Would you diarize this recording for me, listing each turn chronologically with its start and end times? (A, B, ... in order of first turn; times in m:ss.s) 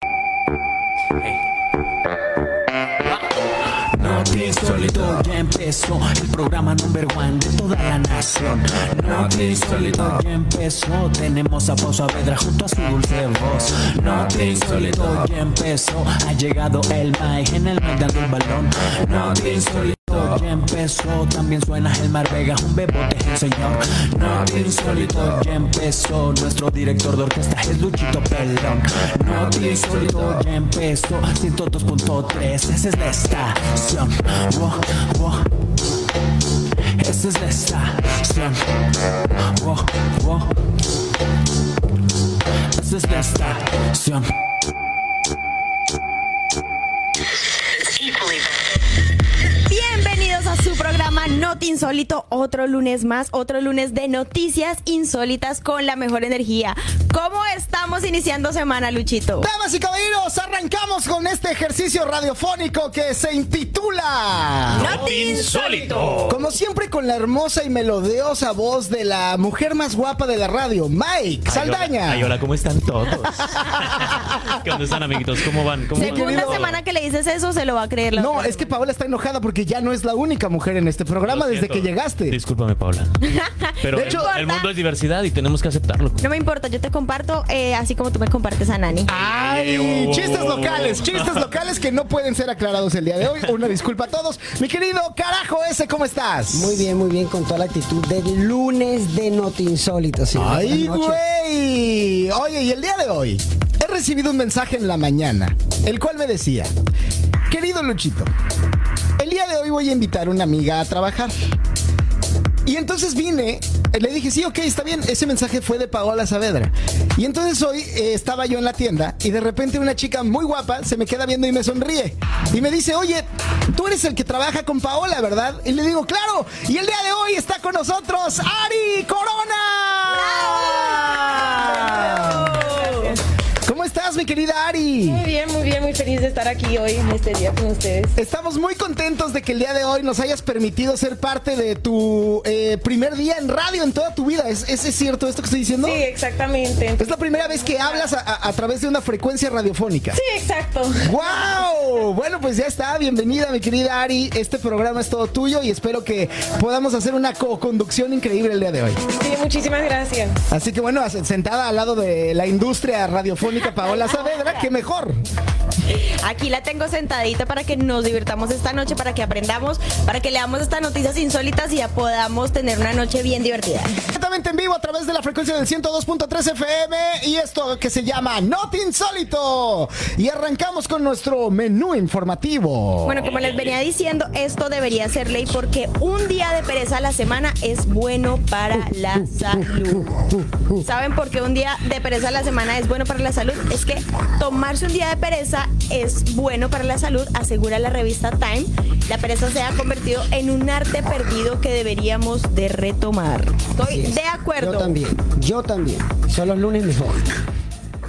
0:03.9-0:35.5 A
0:37.0-0:40.5 A
0:42.7-0:44.3 A
0:49.7-0:59.5 B
0:59.4-1:05.0 C
1:04.7-1:06.5 D
1:04.8-1:06.3 B
1:06.3-1:12.4 C
1:11.5-1:16.8 D
1:13.3-1:14.6 C
1:16.0-1:16.7 C
1:16.0-1:18.7 B
1:18.2-1:22.4 C
1:21.3-1:23.2 D
1:23.2-1:24.7 B
1:23.8-1:26.2 D
1:23.9-1:24.3 C
1:26.2-1:29.1 B
1:29.1-1:36.9 C
1:29.2-1:31.5 D
1:36.5-1:41.2 E
1:40.4-1:46.7 C
1:47.5-1:48.3 C
1:49.2-1:51.4 C
1:52.7-2:12.6 C
2:10.1-2:13.2 B
2:11.9-2:13.1 F
2:13.6-2:15.2 C
2:15.0-2:18.2 F
2:18.2-2:26.0 C
2:25.8-2:28.1 F
2:27.0-2:30.2 C
2:30.1-2:31.5 F
2:31.0-2:39.0 C
2:39.1-2:40.4 F
2:40.5-2:45.2 C
2:45.9-2:54.0 B
2:54.1-3:03.3 C
3:03.0-3:25.0 B
3:03.2-3:03.7 D
3:23.8-3:27.4 E